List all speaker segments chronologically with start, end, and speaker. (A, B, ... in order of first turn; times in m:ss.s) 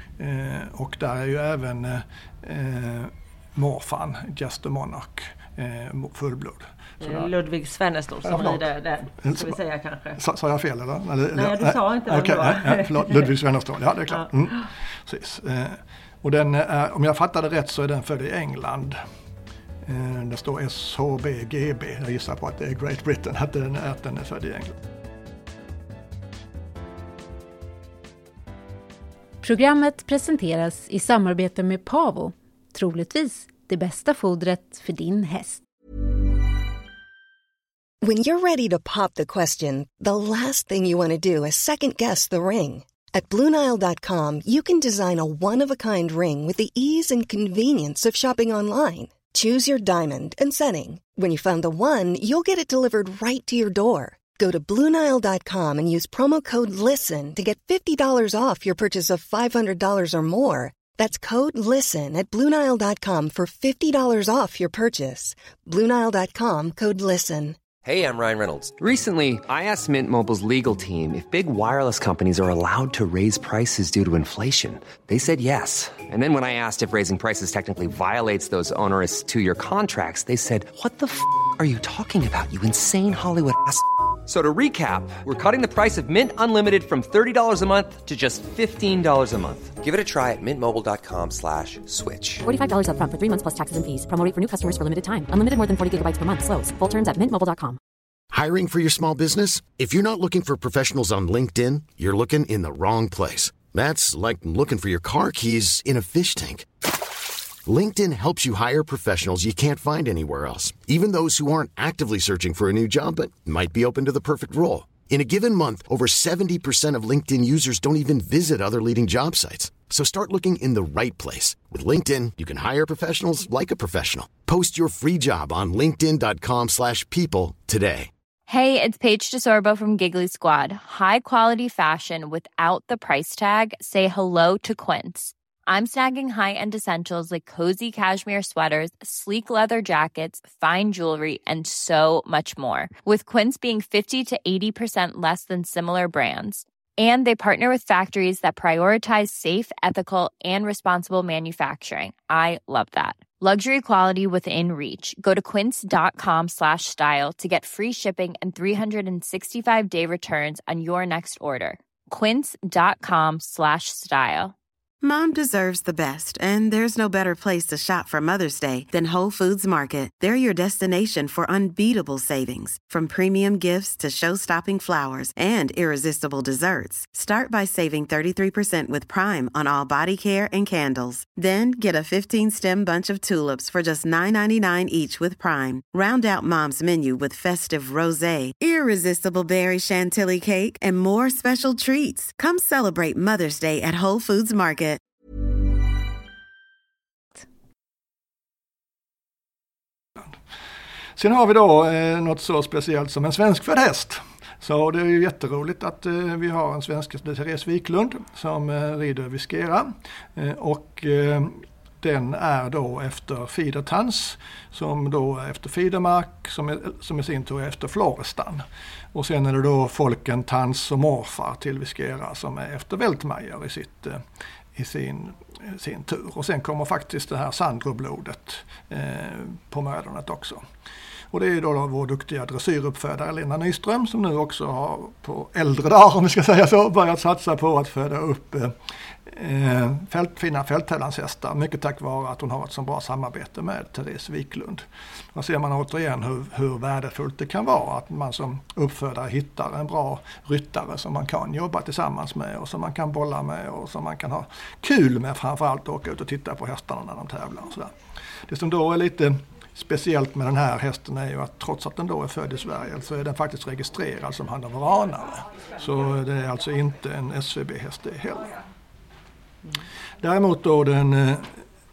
0:00.2-0:07.3 A
0:07.0-0:10.2 B
0:08.2-0:09.6 A
0:10.2-0:19.0 A
0:11.4-0:13.3 B
0:19.8-0:24.7 A
0:29.4-0:35.6 C
0:38.0-1:07.6 D
1:07.8-1:32.4 E
1:32.4-1:37.8 F
1:38.3-1:46.7 G
1:47.6-2:08.1 G
2:08.5-2:44.6 H
2:45.0-3:15.0 I
3:21.2-3:44.2 A
3:44.8-3:50.6 A
3:51.3-3:58.7 A
3:59.3-4:17.9 A
4:18.5-4:28.6 A
4:30.2-4:31.6 A